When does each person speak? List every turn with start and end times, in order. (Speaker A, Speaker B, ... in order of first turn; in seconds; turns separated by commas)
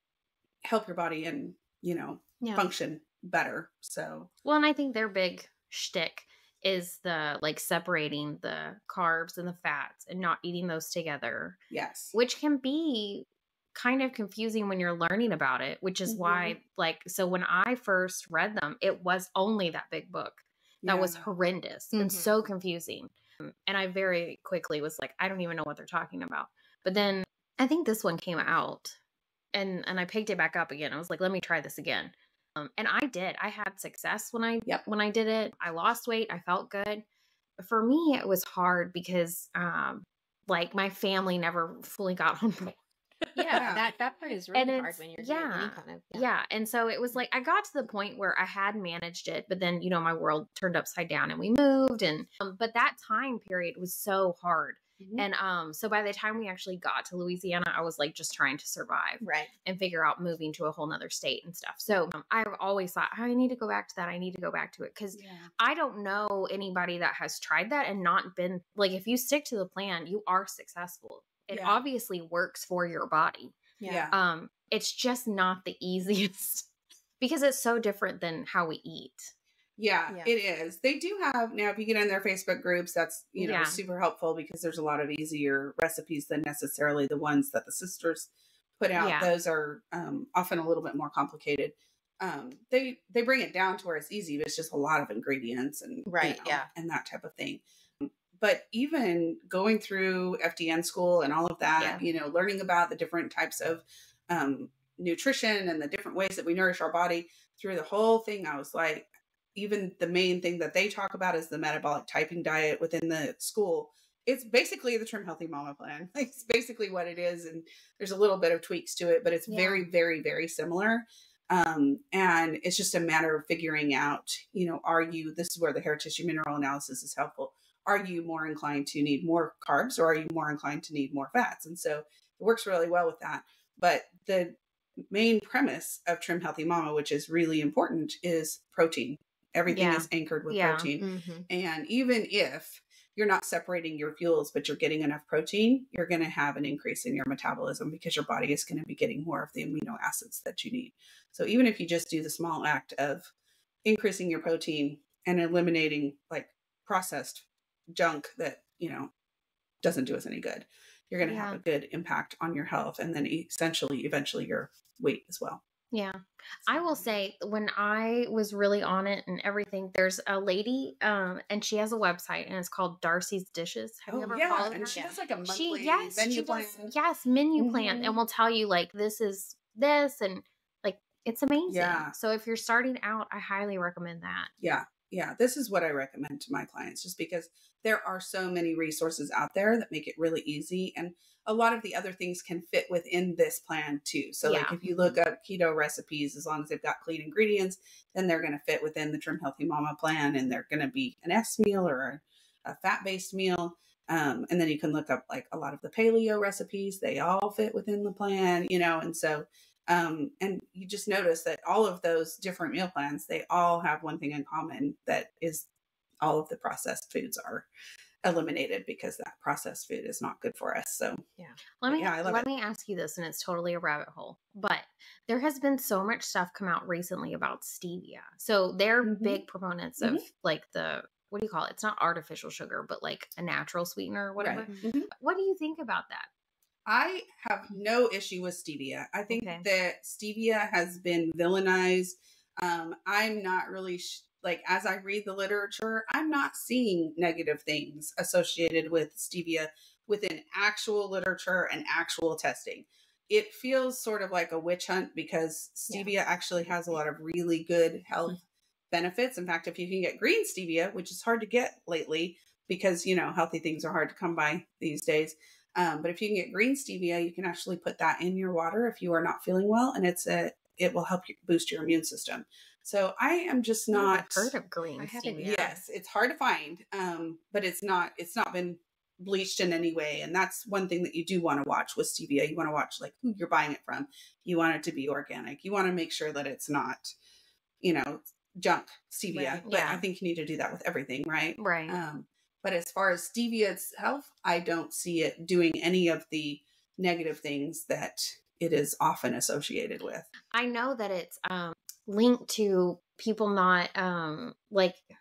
Speaker A: 0.6-4.3, Speaker B: 2.4-2.7, Speaker C: 4.4-11.6, Speaker A: 11.7-12.1, Speaker C: 12.1-29.0, Speaker A: 16.1-16.6, Speaker A: 20.8-21.3, Speaker B: 21.9-22.5, Speaker C: 29.5-37.0, Speaker C: 37.6-43.8, Speaker B: 43.3-46.2, Speaker A: 43.5-43.9, Speaker C: 44.5-73.6, Speaker A: 55.0-55.2, Speaker B: 59.2-59.5, Speaker A: 65.1-65.5, Speaker A: 71.5-71.8, Speaker B: 73.8-74.1, Speaker A: 73.8-74.2, Speaker C: 74.1-76.7, Speaker C: 77.2-79.3, Speaker A: 79.8-134.6, Speaker C: 83.4-83.8, Speaker C: 88.9-89.3, Speaker B: 96.1-96.7, Speaker C: 119.5-119.9, Speaker A: 135.1-153.3, Speaker C: 139.7-140.9, Speaker B: 141.0-141.4, Speaker A: 153.8-159.1, Speaker A: 159.8-165.6, Speaker C: 161.2-161.6, Speaker C: 165.9-184.5, Speaker A: 166.7-167.1, Speaker A: 174.1-176.9, Speaker B: 174.8-175.2, Speaker A: 177.6-178.2, Speaker A: 181.7-182.1, Speaker A: 184.6-215.7, Speaker C: 194.4-194.7, Speaker B: 194.8-195.1, Speaker A: 216.2-217.7, Speaker A: 218.2-221.2, Speaker C: 221.8-236.3, Speaker A: 221.9-222.5, Speaker A: 229.0-229.4, Speaker A: 230.0-230.2, Speaker A: 234.4-235.1, Speaker A: 236.8-258.4, Speaker C: 239.3-239.7, Speaker A: 258.9-274.5, Speaker C: 273.9-275.7, Speaker B: 275.0-275.8, Speaker A: 275.4-287.1, Speaker A: 287.8-300.3, Speaker B: 289.3-289.6, Speaker C: 289.6-290.0, Speaker C: 291.6-292.0, Speaker C: 300.5-305.0